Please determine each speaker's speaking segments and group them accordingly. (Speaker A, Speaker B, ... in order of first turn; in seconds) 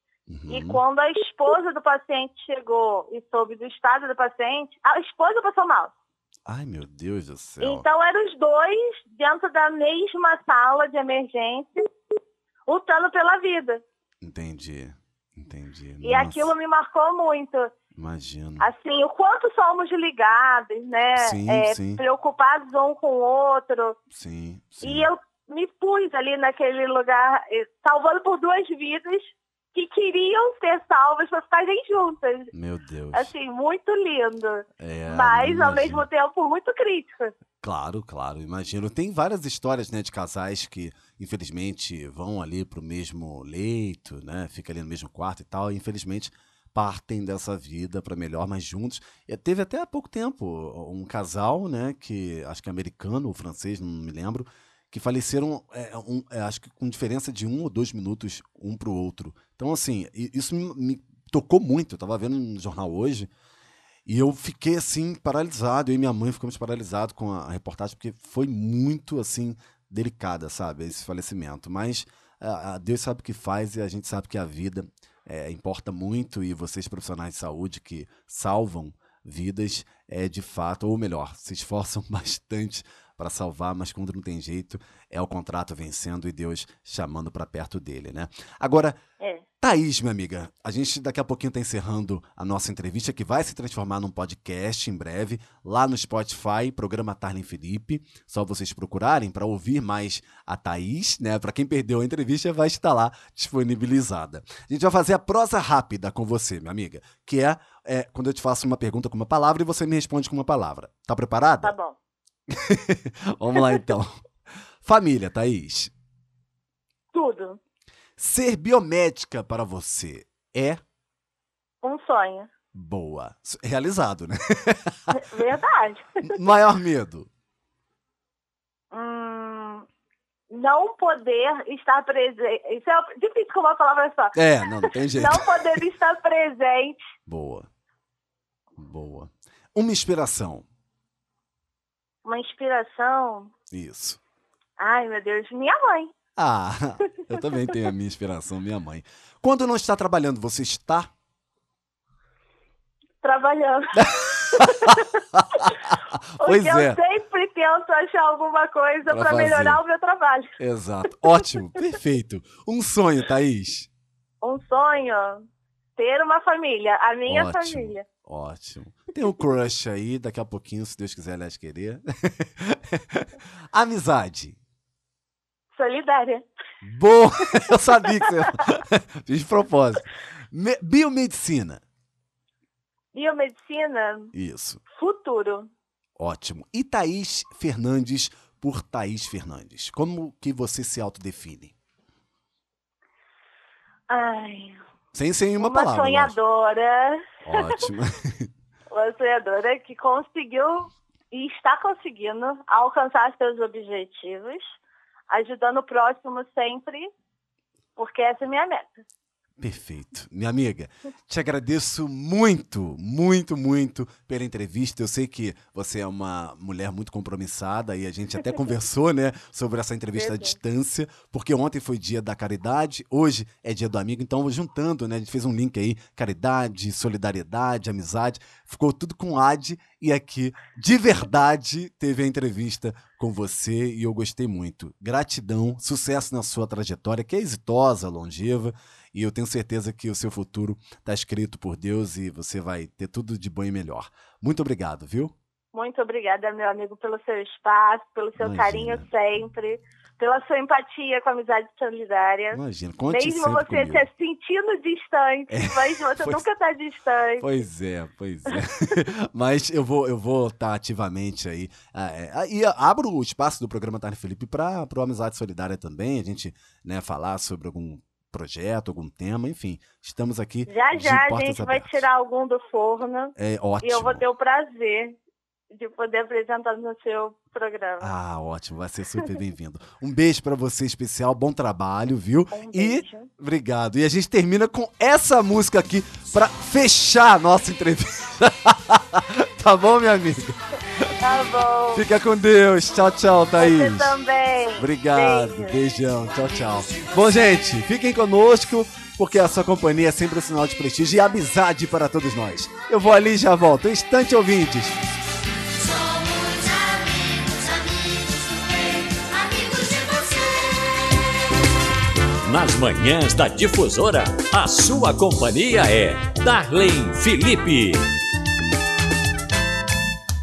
Speaker A: 0.3-0.8, 6.5-7.8, 14.2-16.5, 17.9-18.7, 21.2-22.0, 24.1-25.1, 32.5-33.3, 34.8-36.0, 37.6-63.3, 64.0-89.0, 89.6-111.7, 112.5-114.2, 114.8-115.9, 118.2-120.8, 122.7-125.2, 126.2-127.3, 134.3-135.8, 137.3-137.7, 138.8-140.7, 143.7-144.2, 146.3-151.1, 153.9-157.0, 159.1-159.8, 160.6-163.9, 167.3-174.6, 176.8-181.8, 184.3-184.8, 186.2-191.7, 195.1-196.4, 197.4-198.5, 209.6-245.3, 248.4-249.1, 252.5-254.1, 255.5-256.4, 257.4-272.1, 273.4-274.2, 278.0-291.1, 291.9-294.1, 294.8-305.0
Speaker B: 0.5-5.9, 7.6-11.9, 12.7-13.8, 16.0-17.7, 18.6-24.0, 24.8-32.5, 33.1-37.3, 89.2-89.4, 111.6-112.0, 117.1-117.6, 121.8-122.5, 125.1-126.3, 128.9-129.8, 130.5-134.3, 134.9-137.1, 142.2-143.5, 144.8-146.1, 153.2-155.8, 156.4-160.6, 164.4-165.4, 166.0-168.1, 175.8-176.5, 178.2-178.6, 183.1-184.3, 184.9-185.7, 194.1-194.8, 195.6-197.8, 198.9-204.8, 205.3-207.1, 207.9-209.0, 220.2-220.6, 245.7-257.5, 270.7-275.2, 275.7-278.1, 282.5-283.3, 291.2-292.0, 293.6-295.8
Speaker C: 305.8-311.0
Speaker D: 312.4-318.1